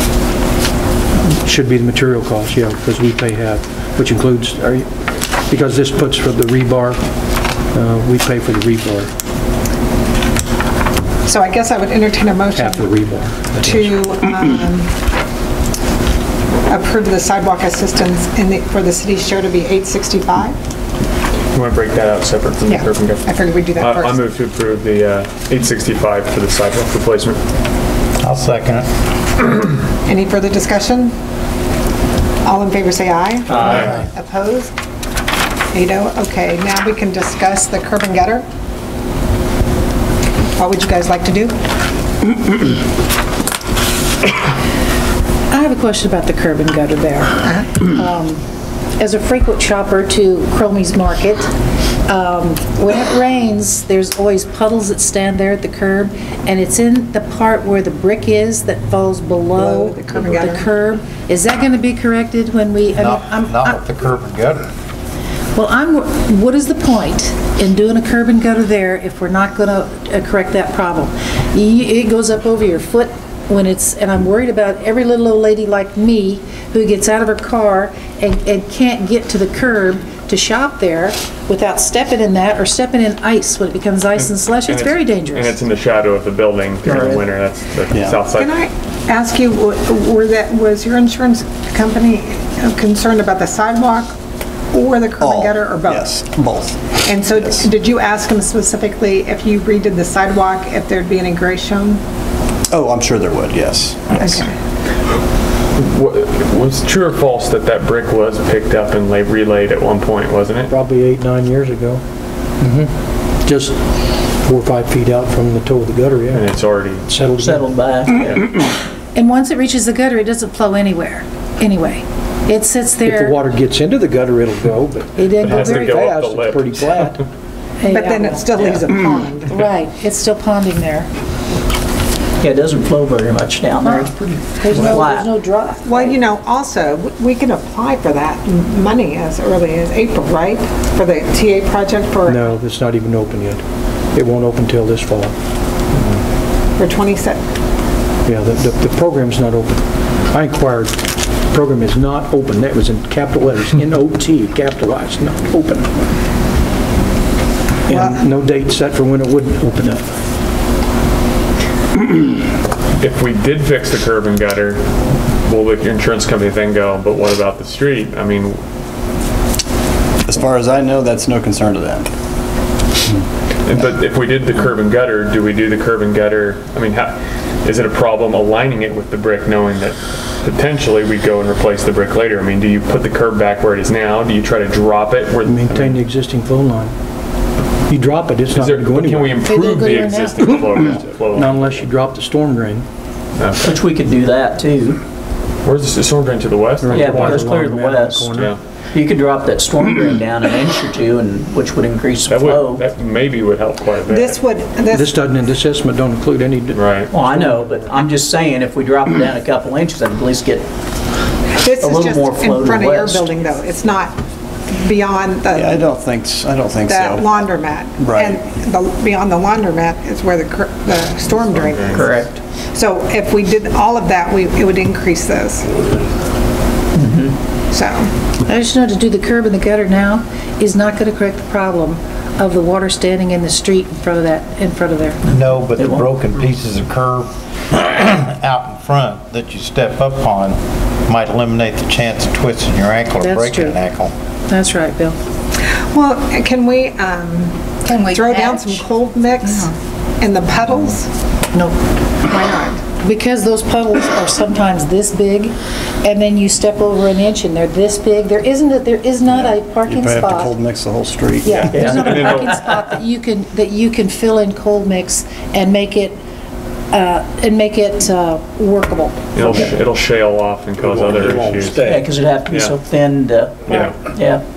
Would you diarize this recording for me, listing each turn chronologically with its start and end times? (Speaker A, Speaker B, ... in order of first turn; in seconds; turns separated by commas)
Speaker A: 1.3-9.1, Speaker B: 11.2-13.0, Speaker A: 12.5-13.9, Speaker B: 13.6-14.9, Speaker B: 16.7-20.6, Speaker C: 21.5-27.4, Speaker B: 22.6-24.2, Speaker D: 28.2-28.9, Speaker B: 30.0-31.1, Speaker B: 32.4-34.7, Speaker C: 33.6-33.9, Speaker B: 35.7-38.4, Speaker B: 40.6-41.5, Speaker E: 45.5-48.4, Speaker B: 47.4-47.8, Speaker E: 49.0-51.5, Speaker E: 52.1-63.8, Speaker B: 59.5-60.7, Speaker D: 62.9-64.6, Speaker E: 65.5-85.6, Speaker C: 84.2-88.5, Speaker F: 87.9-88.2, Speaker B: 88.3-94.1, Speaker B: 94.7-96.1, Speaker F: 95.2-97.7, Speaker B: 97.0-102.0, Speaker F: 102.7-104.5, Speaker B: 104.2-104.5, Speaker C: 105.8-110.7, Speaker A: 110.7-112.0, Speaker A: 112.6-112.9, Speaker A: 113.4-116.5, Speaker C: 116.3-117.0, Speaker A: 117.0-118.6, Speaker G: 117.4-118.2, Speaker C: 118.2-118.4, Speaker E: 119.1-123.4, Speaker A: 123.0-127.2, Speaker E: 125.2-126.0, Speaker C: 125.4-127.2, Speaker E: 127.8-128.4, Speaker B: 127.8-129.6, Speaker E: 129.5-131.1, Speaker G: 132.4-134.2, Speaker E: 133.8-136.2, Speaker G: 134.8-135.3, Speaker B: 135.8-142.4, Speaker A: 142.2-145.3, Speaker B: 146.8-147.4, Speaker A: 148.2-156.0, Speaker A: 157.9-160.2, Speaker B: 157.9-158.3, Speaker C: 163.0-168.6, Speaker F: 170.2-172.1, Speaker C: 173.7-186.0, Speaker A: 185.4-186.9, Speaker A: 187.9-189.4, Speaker C: 188.5-191.8, Speaker E: 189.4-190.4, Speaker A: 191.3-192.8, Speaker C: 193.4-193.7, Speaker G: 193.6-195.0, Speaker C: 195.6-197.5, Speaker A: 196.8-198.6, Speaker G: 196.9-198.3, Speaker C: 198.3-198.6, Speaker G: 198.9-202.8, Speaker C: 202.3-204.4, Speaker B: 204.1-205.1, Speaker A: 204.9-207.9, Speaker C: 206.7-207.1, Speaker G: 207.1-210.7, Speaker B: 211.5-214.2, Speaker G: 211.8-213.3, Speaker B: 214.7-215.8, Speaker F: 215.5-217.4, Speaker B: 216.8-222.1, Speaker F: 218.0-218.4, Speaker C: 221.5-222.1, Speaker G: 221.9-222.3, Speaker B: 222.7-225.7, Speaker G: 226.9-227.4, Speaker B: 227.7-228.1, Speaker E: 228.4-235.2, Speaker D: 235.3-244.1, Speaker G: 235.8-236.0, Speaker E: 243.2-243.8, Speaker E: 244.5-245.2, Speaker B: 245.7-251.1, Speaker E: 247.9-248.8, Speaker B: 252.3-252.8, Speaker E: 253.0-260.6, Speaker F: 259.3-262.3, Speaker E: 261.4-266.2, Speaker G: 261.7-262.6, Speaker C: 262.0-262.4, Speaker E: 266.9-269.7, Speaker C: 269.3-271.9, Speaker G: 271.9-274.4, Speaker C: 272.5-272.7, Speaker C: 273.6-274.0